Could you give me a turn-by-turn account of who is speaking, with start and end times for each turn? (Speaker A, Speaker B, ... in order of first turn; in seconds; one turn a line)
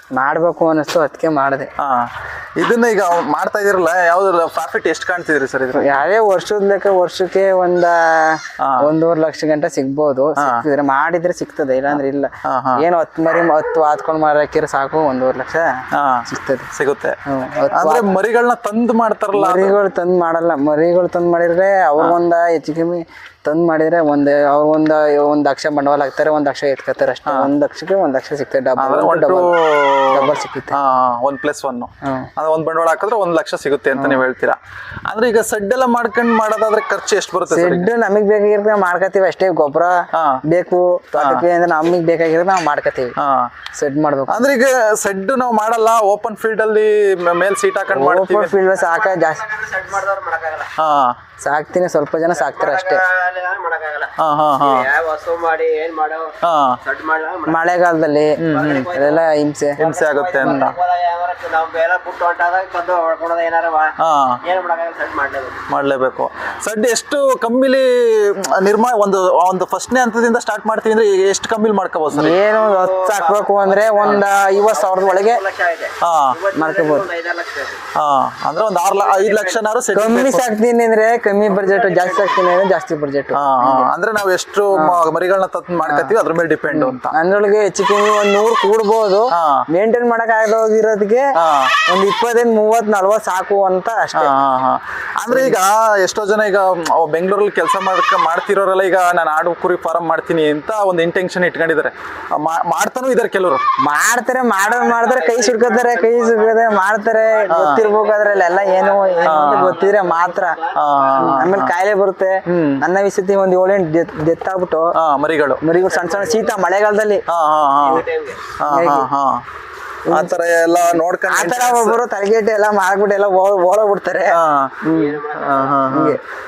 Speaker A: 0.1-1.7
Speaker B: 1.8-6.0
Speaker A: 5.7-16.7
Speaker B: 8.6-8.9
Speaker B: 10.4-10.6
Speaker B: 12.4-12.8
Speaker B: 15.9-17.2
Speaker A: 17.3-18.1
Speaker B: 17.7-19.8
Speaker A: 19.4-29.5
Speaker B: 28.8-37.9
Speaker A: 30.1-30.8
Speaker A: 32.0-32.3
Speaker A: 34.0-34.2
Speaker A: 37.5-43.1
Speaker B: 40.1-40.4
Speaker B: 41.2-41.4
Speaker B: 43.2-43.5
Speaker A: 43.7-44.4
Speaker B: 44.3-48.5
Speaker A: 47.9-49.4
Speaker C: 48.7-50.7
Speaker B: 50.8-51.2
Speaker A: 51.4-53.0
Speaker C: 52.3-57.6
Speaker B: 54.2-54.9
Speaker B: 56.4-56.8
Speaker A: 57.5-59.8
Speaker C: 58.4-59.2
Speaker B: 59.8-60.7
Speaker C: 59.8-65.6
Speaker A: 60.4-60.7
Speaker B: 64.0-64.4
Speaker B: 65.7-72.4
Speaker A: 72.1-75.4
Speaker C: 72.4-77.8
Speaker B: 76.0-76.4
Speaker A: 76.5-77.1
Speaker B: 77.9-80.5
Speaker C: 78.8-79.6
Speaker A: 79.9-83.9
Speaker C: 81.5-82.4
Speaker B: 83.3-87.1
Speaker A: 84.7-85.0
Speaker A: 85.8-86.2
Speaker A: 86.7-91.2
Speaker B: 89.3-89.6
Speaker B: 91.4-91.7
Speaker A: 91.9-94.3
Speaker B: 94.1-103.6
Speaker A: 95.3-95.6
Speaker A: 103.8-110.5
Speaker C: 104.6-111.5
Speaker B: 107.5-107.8
Speaker B: 109.2-109.8
Speaker B: 110.8-111.7
Speaker A: 111.2-114.9
Speaker B: 112.5-112.8
Speaker B: 115.0-115.6
Speaker A: 115.6-117.2
Speaker C: 115.7-116.5
Speaker B: 117.3-118.0
Speaker C: 117.8-118.5
Speaker B: 118.6-119.5
Speaker A: 118.7-119.1
Speaker A: 120.0-120.4
Speaker B: 120.1-122.0
Speaker A: 121.2-125.2
Speaker B: 124.3-126.2
Speaker C: 124.9-125.9
Speaker A: 125.9-126.2